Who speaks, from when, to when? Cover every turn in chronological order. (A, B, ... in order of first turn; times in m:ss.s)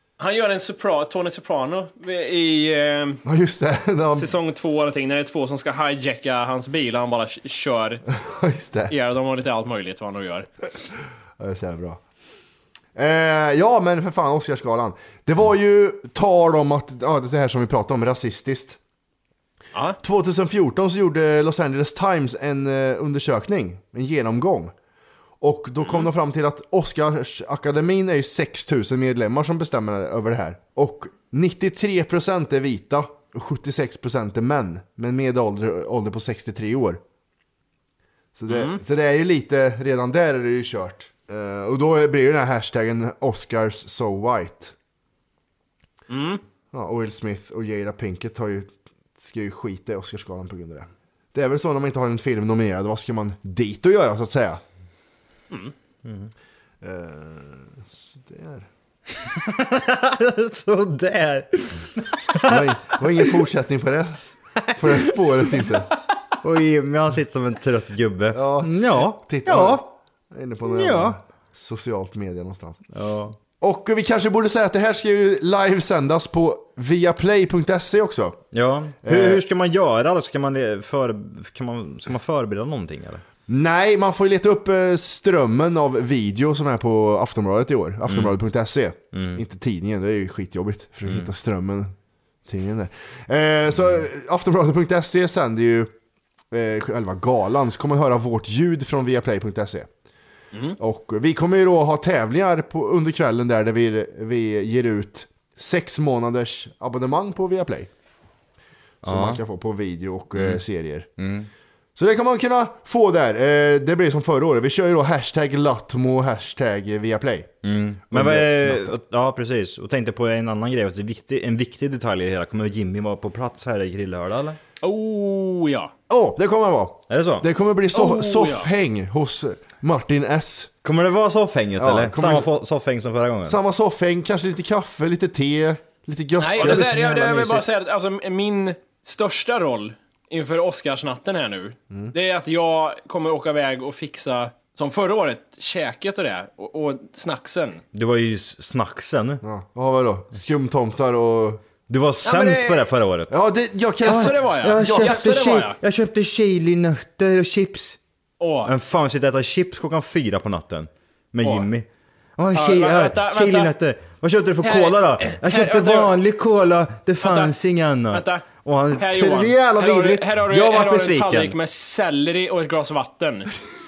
0:00.2-0:03.2 A
0:03.2-0:04.3 B
0:04.1-0:08.0 A
0:08.2-0:08.9 B
0:08.9-0:10.5 A
0:11.4-0:12.0 B
0:13.0-0:18.8 B
0:20.0-0:24.7 B
0:25.4-0:37.0 B
0:38.4-0:44.8 B
0:38.5-0:38.8 A
0:46.1-0:46.4 A
0:46.7-0:54.6 B
0:56.0-0:56.3 C
0:56.8-0:58.7 B
0:59.3-1:02.6 C
1:02.5-1:04.2 B
1:04.7-1:05.1 C
1:04.8-1:05.9 B
1:06.4-1:09.8 C
1:08.3-1:12.8 B
1:10.6-1:11.2 C
1:12.9-1:13.4 C
1:13.6-1:18.4 B
1:18.5-1:23.2 C
1:19.0-1:19.4 B
1:23.5-1:31.9 B
1:28.1-1:28.4 C
1:29.1-1:29.4 C
1:32.5-1:35.9 B
1:36.5-1:39.9 B
1:40.8-1:47.9 B
1:49.0-1:51.1 B
1:49.0-1:49.4 C
1:50.4-1:50.6 C
1:51.2-1:51.5 C
1:52.0-1:57.5 B
1:57.6-2:04.6 C
1:58.1-1:58.9 B
2:04.8-2:05.9 A
2:06.1-2:10.7 B
2:07.1-2:07.5 C
2:07.9-2:08.7 A
2:10.8-2:13.6 C
2:11.8-2:12.5 B
2:13.4-2:17.6 B
2:16.4-2:27.8 A
2:16.6-2:17.1 C
2:27.9-2:29.4 C
2:29.4-2:31.6 B
2:31.9-2:33.3 C
2:32.2-2:32.9 A
2:33.3-2:35.2 B
2:34.0-2:38.0 C
2:34.0-2:35.8 A
2:38.4-2:38.7 A
2:38.6-2:41.9 C
2:41.4-2:41.7 A
2:42.4-2:51.6 C
2:42.5-2:43.7 A
2:44.6-2:46.2 A
2:47.2-2:47.6 A
2:48.1-2:48.4 A
2:49.0-2:53.5 A